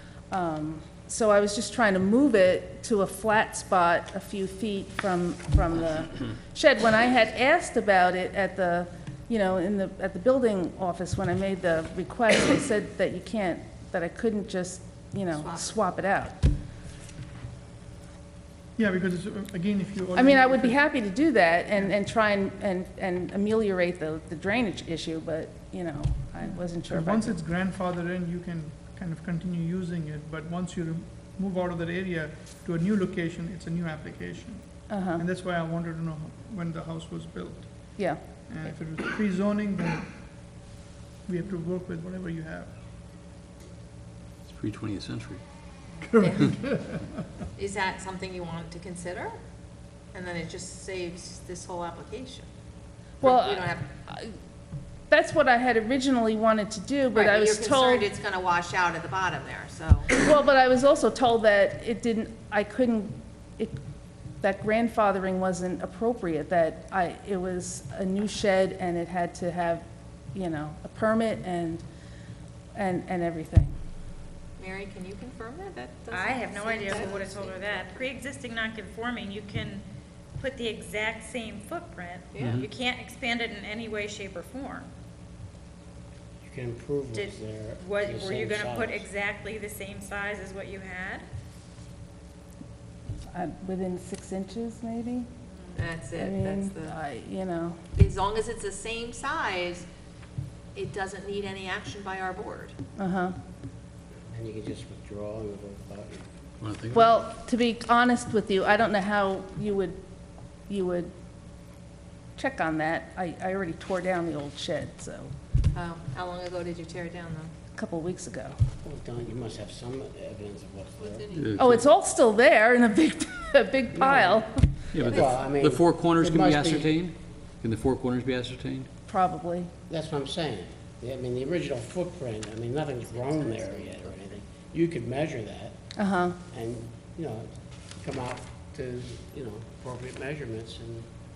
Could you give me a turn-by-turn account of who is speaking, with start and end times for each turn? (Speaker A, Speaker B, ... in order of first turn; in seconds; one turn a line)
Speaker A: 0.3-16.4
Speaker B: 15.4-15.7
Speaker C: 18.8-20.9
Speaker A: 20.1-27.4
Speaker C: 26.4-38.0
Speaker A: 34.9-35.2
Speaker A: 38.0-38.8
Speaker C: 38.5-40.1
Speaker C: 41.3-42.7
Speaker D: 44.5-45.4
Speaker C: 46.0-47.1
Speaker B: 46.2-46.5
Speaker B: 47.6-49.3
Speaker B: 50.1-52.5
Speaker B: 53.2-53.8
Speaker A: 53.2-54.3
Speaker A: 55.1-58.1
Speaker B: 57.1-60.1
Speaker A: 60.1-63.8
Speaker A: 64.4-71.8
Speaker A: 72.7-73.8
Speaker B: 74.6-78.0
Speaker E: 76.1-79.8
Speaker E: 80.4-84.9
Speaker B: 82.3-82.6
Speaker D: 82.4-82.7
Speaker F: 86.4-89.1
Speaker E: 87.1-91.2
Speaker A: 93.3-95.3
Speaker E: 95.5-95.8
Speaker B: 95.7-96.9
Speaker A: 96.2-97.8
Speaker B: 97.9-99.8
Speaker B: 100.7-102.8
Speaker A: 103.0-103.3
Speaker F: 104.3-106.3
Speaker D: 106.6-107.1
Speaker A: 106.9-110.0
Speaker A: 110.7-111.1
Speaker A: 112.3-115.3
Speaker B: 115.7-117.5
Speaker A: 117.7-118.5
Speaker F: 118.8-121.8
Speaker D: 121.3-121.7
Speaker A: 121.6-124.7
Speaker F: 123.9-126.9
Speaker D: 124.9-128.9
Speaker A: 129.1-129.7
Speaker F: 129.9-135.8
Speaker A: 135.9-136.4
Speaker F: 136.4-141.1